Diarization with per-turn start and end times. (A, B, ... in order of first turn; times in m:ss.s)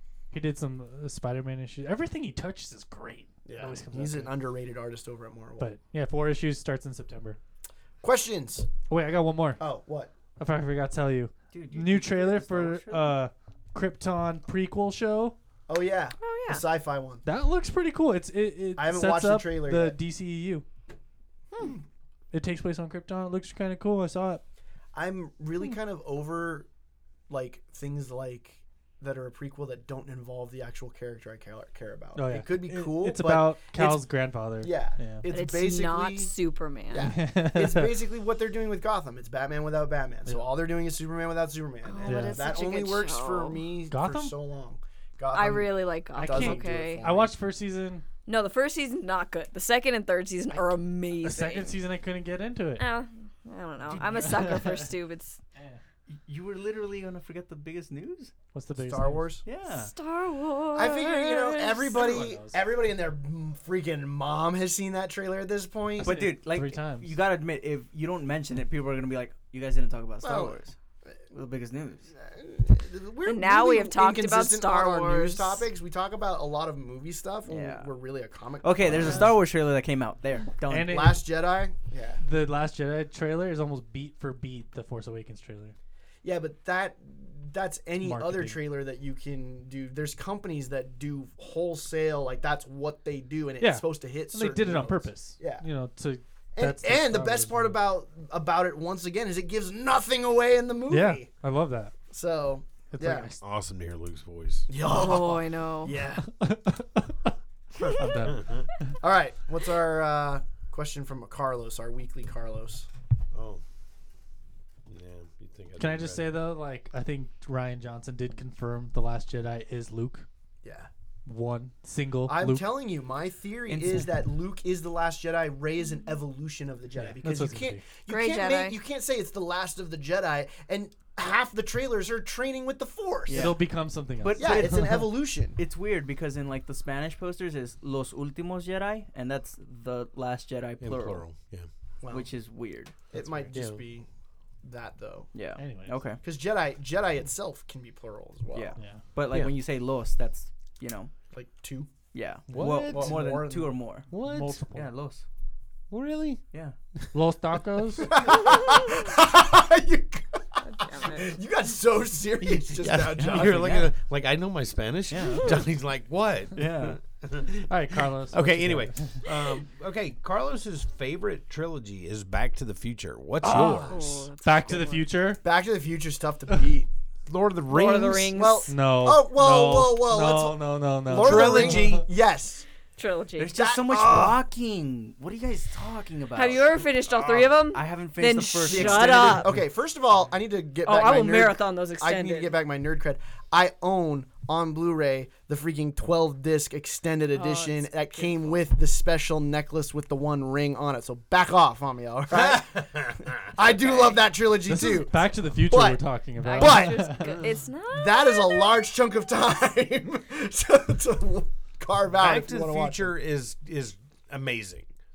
0:00.3-0:04.3 A
0:03.4-0:05.7 B
0:05.6-0:07.4 A
0:08.0-0:08.7 B
0:08.9-0:09.7 A
0:09.6-0:10.1 B
0:10.4-0:15.4 A
0:11.5-0:13.2 C
0:15.7-0:17.2 B
0:16.2-0:16.6 D
0:17.2-0:20.6 A
0:18.8-0:20.0 B
0:21.5-0:21.8 B
0:22.3-0:24.4 A
0:24.9-0:26.7 B
0:27.3-0:34.0 B
0:32.2-0:35.3 A
0:34.6-0:36.3 B
0:35.3-0:37.1 D
0:36.9-0:47.3 B
0:37.0-0:38.0 A
0:41.8-0:43.6 D
0:42.0-0:42.5 A
0:43.9-0:44.3 A
0:45.3-0:47.0 D
0:46.1-0:48.0 A
0:48.2-0:51.8 D
0:51.2-0:52.8 A
0:52.8-0:55.4 D
0:53.9-0:54.8 C
0:54.1-0:54.7 A
0:56.1-0:58.3 C
0:58.5-0:59.4 A
0:58.8-0:59.4 B
0:59.4-0:59.9 C
0:59.8-1:02.2 D
1:00.7-1:06.2 B
1:02.0-1:02.6 A
1:06.0-1:07.1 A
1:06.0-1:10.7 C
1:10.2-1:10.6 B
1:11.3-1:12.1 C
1:12.1-1:19.3 B
1:13.2-1:15.6 D
1:17.5-1:17.9 C
1:18.6-1:21.1 C
1:18.9-1:19.3 A
1:20.7-1:21.2 A
1:20.8-1:22.2 B
1:22.2-1:25.8 A
1:26.2-1:35.6 B
1:28.0-1:28.6 A
1:33.6-1:37.7 A
1:36.5-1:41.3 B
1:40.9-1:41.9 A
1:42.1-1:43.3 B
1:42.9-1:43.4 A
1:43.4-1:44.7 E
1:44.7-1:46.3 B
1:44.8-1:46.0 D
1:46.2-1:47.2 A
1:47.8-1:48.9 A
1:48.2-1:48.6 E
1:49.0-1:52.9 B
1:53.3-1:53.6 E
1:54.9-1:56.3 E
1:55.8-2:00.2 A
2:00.6-2:00.9 B
2:01.2-2:02.6 A
2:02.3-2:13.5 B
2:03.7-2:04.1 C
2:07.0-2:07.9 A
2:08.1-2:08.8 D
2:13.3-2:13.6 C
2:13.3-2:15.0 A
2:14.2-2:15.0 C
2:14.4-2:15.6 B
2:15.6-2:21.2 C
2:20.8-2:21.7 E
2:22.0-2:22.3 B
2:22.1-2:23.5 C
2:23.1-2:24.1 B
2:23.5-2:23.8 E
2:24.6-2:25.3 B
2:25.3-2:26.2 C
2:25.6-2:26.0 A
2:26.2-2:28.8 B
2:28.5-2:31.1 C
2:28.8-2:29.0 A
2:31.3-2:31.9 B
2:32.1-2:34.1 C
2:32.5-2:33.0 A
2:32.5-2:33.2 E
2:32.8-2:33.8 B
2:34.1-2:34.6 E
2:34.1-2:34.9 A
2:34.7-2:35.2 C
2:35.9-2:36.4 E
2:37.1-2:38.2 A
2:38.0-2:43.9 B
2:40.6-2:41.4 D
2:42.4-2:54.0 E
2:43.2-2:43.8 C
2:45.1-2:45.6 C
2:46.5-2:47.0 C
2:47.7-2:49.3 A
2:53.4-2:55.4 A
2:53.6-2:55.1 D
2:55.4-2:56.9 B
2:57.3-2:58.3 E
2:57.7-2:58.7 D
2:58.3-3:02.6 B
2:58.7-3:02.0 A
3:01.1-3:02.0 E
3:03.0-3:03.6 D
3:03.4-3:06.8 C
3:03.5-3:04.4 B
3:06.3-3:09.5 D
3:07.0-3:07.6 E
3:07.7-3:09.5 C
3:08.6-3:27.4 B
3:10.8-3:12.5 D
3:17.3-3:18.6 D
3:22.5-3:23.4 E
3:24.6-3:27.4 A
3:26.4-3:28.7 D
3:27.9-3:33.2 B
3:32.1-3:34.9 E